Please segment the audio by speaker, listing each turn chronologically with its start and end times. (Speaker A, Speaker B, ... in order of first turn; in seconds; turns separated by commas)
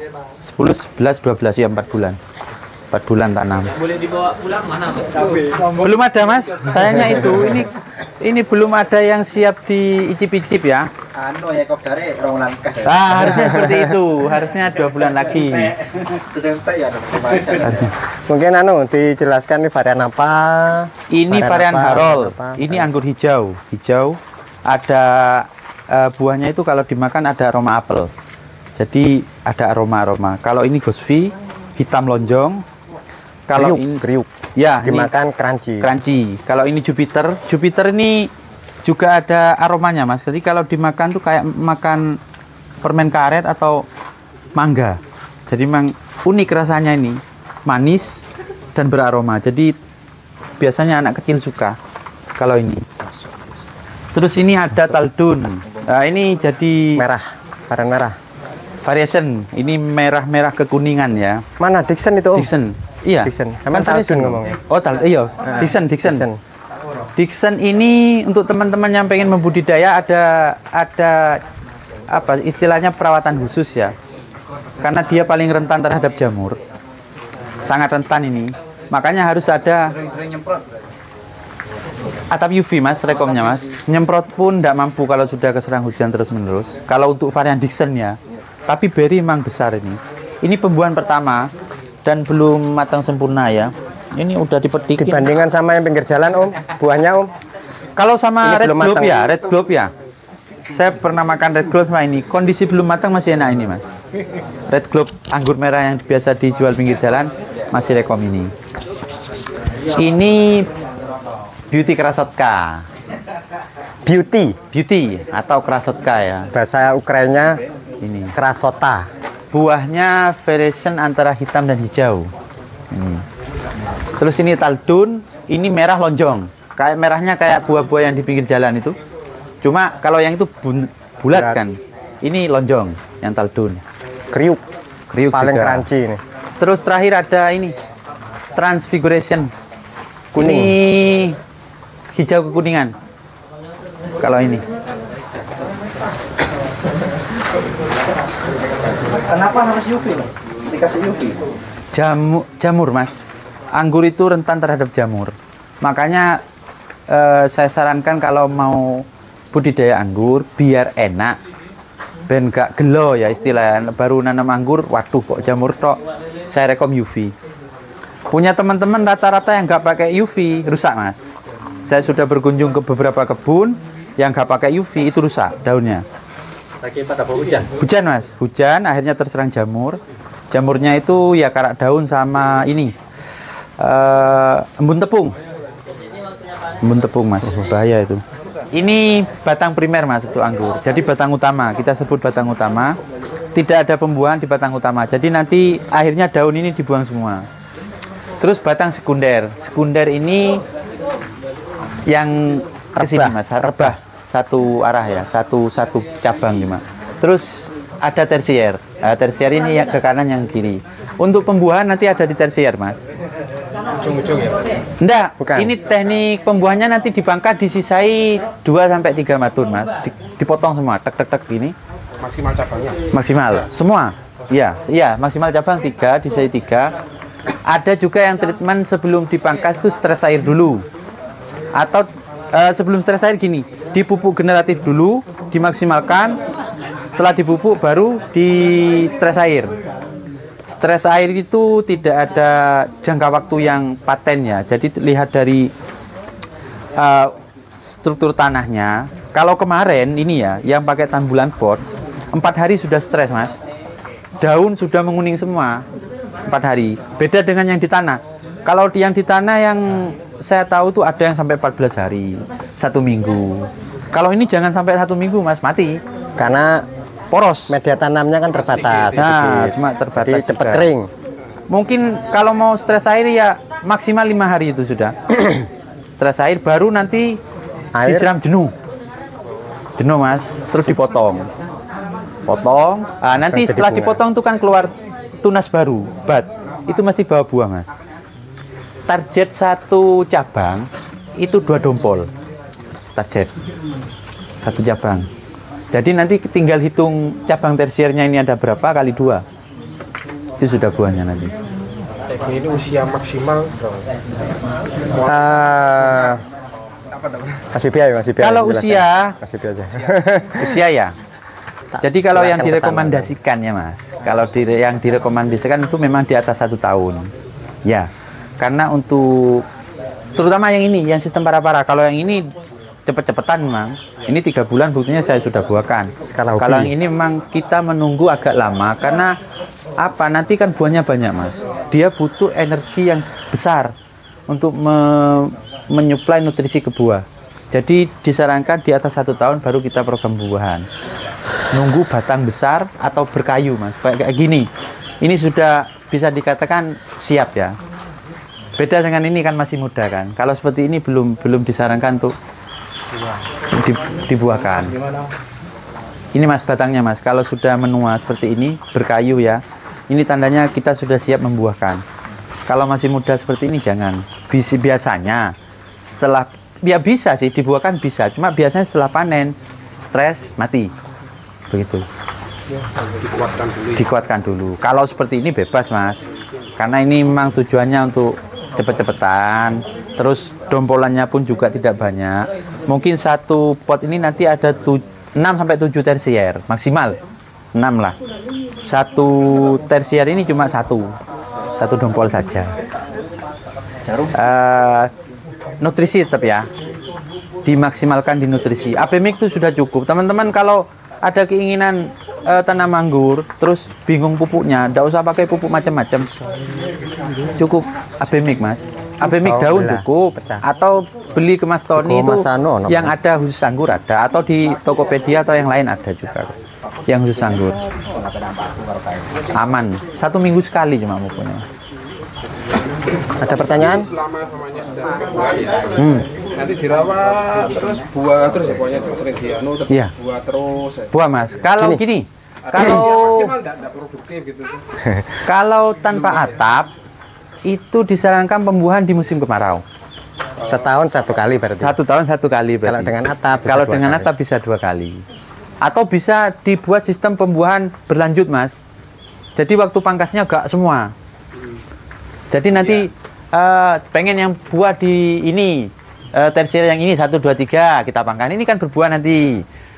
Speaker A: 0.4-2.2, Speaker A: 2.9-3.8, Speaker A: 5.6-10.9, Speaker B: 11.7-12.6, Speaker A: 12.7-16.1, Speaker B: 16.7-17.2, Speaker A: 17.6-17.9, Speaker C: 17.9-22.9, Speaker A: 21.1-28.1, Speaker A: 28.8-32.6, Speaker A: 33.5-34.0, Speaker C: 33.5-34.3, Speaker A: 34.5-35.1, Speaker C: 34.8-35.9, Speaker A: 35.8-38.3, Speaker A: 38.8-42.2, Speaker A: 42.8-43.9, Speaker A: 44.5-48.2, Speaker A: 48.8-49.7, Speaker A: 50.6-51.8, Speaker A: 52.4-52.8, Speaker A: 54.1-57.0, Speaker C: 57.0-58.1, Speaker A: 58.8-61.4, Speaker C: 61.6-62.5, Speaker A: 62.3-66.3, Speaker C: 63.2-64.6, Speaker C: 65.6-66.4, Speaker A: 67.2-71.4, Speaker A: 72.1-73.9, Speaker A: 74.8-76.6, Speaker A: 77.6-79.9, Speaker B: 80.0-80.6, Speaker A: 82.3-91.5, Speaker A: 92.0-95.3, Speaker C: 95.0-97.3, Speaker A: 98.0-99.9, Speaker C: 98.4-99.2, Speaker A: 100.6-103.8, Speaker A: 104.7-108.5, Speaker A: 109.9-110.7, Speaker A: 111.7-112.8, Speaker C: 114.0-114.5, Speaker A: 114.7-116.5, Speaker C: 116.5-117.6, Speaker A: 118.0-118.3, Speaker C: 118.3-119.0, Speaker A: 119.5-122.3, Speaker A: 122.9-123.2, Speaker A: 124.2-128.9, Speaker A: 129.6-133.8, Speaker C: 131.3-131.6, Speaker C: 134.3-134.6, Speaker A: 135.1-135.9, Speaker C: 135.3-136.2, Speaker A: 136.6-137.7, Speaker A: 138.6-139.5, Speaker A: 140.3-141.3, Speaker C: 140.3-140.7, Speaker A: 142.1-142.9, Speaker A: 144.2-144.6, Speaker B: 149.3-151.3, Speaker A: 151.9-153.2, Speaker A: 153.7-156.4, Speaker A: 157.1-161.4, Speaker A: 162.3-167.3, Speaker A: 168.3-171.2, Speaker A: 171.9-176.0, Speaker A: 177.8-180.0, Speaker A: 180.5-182.9, Speaker A: 183.8-185.3, Speaker A: 186.8-192.9, Speaker A: 193.5-197.4, Speaker A: 198.4-200.6, Speaker A: 202.1-213.0, Speaker C: 203.0-203.9, Speaker D: 214.0-214.7, Speaker A: 215.0-221.7, Speaker C: 215.4-215.7, Speaker D: 222.2-223.0, Speaker A: 223.1-226.9, Speaker A: 227.7-230.8, Speaker A: 231.7-236.4, Speaker A: 237.1-239.7, Speaker A: 240.7-245.7, Speaker A: 246.9-253.6, Speaker A: 254.4-255.8, Speaker A: 256.5-266.0, Speaker C: 266.4-266.8, Speaker A: 267.3-267.8, Speaker C: 267.7-271.1, Speaker D: 268.6-269.1, Speaker A: 269.1-270.9, Speaker A: 271.7-275.6, Speaker A: 276.1-277.4, Speaker C: 277.9-278.3, Speaker A: 278.0-278.7, Speaker A: 280.0-281.5, Speaker A: 282.4-287.9, Speaker C: 283.3-284.2, Speaker A: 289.1-290.9, Speaker A: 291.4-292.3, Speaker A: 293.1-293.5, Speaker A: 294.6-295.3, Speaker A: 295.9-299.4, Speaker A: 300.6-301.5, Speaker D: 302.3-304.1, Speaker C: 305.2-306.4, Speaker D: 307.1-307.6, Speaker C: 307.7-310.8, Speaker A: 308.4-309.4, Speaker A: 310.5-311.1, Speaker C: 311.9-313.3, Speaker A: 312.0-317.3, Speaker A: 318.6-319.6, Speaker A: 320.4-322.4, Speaker A: 323.1-329.3, Speaker C: 326.2-326.9, Speaker A: 330.0-333.9, Speaker A: 334.5-340.9, Speaker A: 341.7-344.7, Speaker A: 345.2-347.8, Speaker A: 348.8-352.3, Speaker A: 353.7-355.0, Speaker A: 356.3-362.0, Speaker A: 362.7-365.5, Speaker A: 366.0-370.9, Speaker A: 371.7-372.0, Speaker D: 373.0-373.9, Speaker A: 373.9-376.2, Speaker A: 376.8-387.2, Speaker A: 387.7-388.1, Speaker A: 388.9-391.1, Speaker A: 391.8-392.7, Speaker A: 394.1-395.1, Speaker A: 395.8-396.7, Speaker A: 397.6-406.3, Speaker A: 407.6-416.5, Speaker C: 409.2-410.6, Speaker C: 412.0-413.1, Speaker A: 417.1-417.8, Speaker A: 419.5-421.6, Speaker C: 423.4-424.1, Speaker D: 423.4-425.9, Speaker A: 426.0-426.2, Speaker D: 426.5-431.1, Speaker A: 431.1-433.5, Speaker C: 431.8-432.0, Speaker D: 432.7-434.8, Speaker C: 432.8-433.0, Speaker C: 435.0-435.3, Speaker A: 435.4-436.9, Speaker A: 437.6-439.8, Speaker C: 440.6-441.9, Speaker A: 441.7-445.2, Speaker C: 442.8-444.3, Speaker A: 445.8-448.7, Speaker A: 449.6-451.1, Speaker A: 452.5-459.6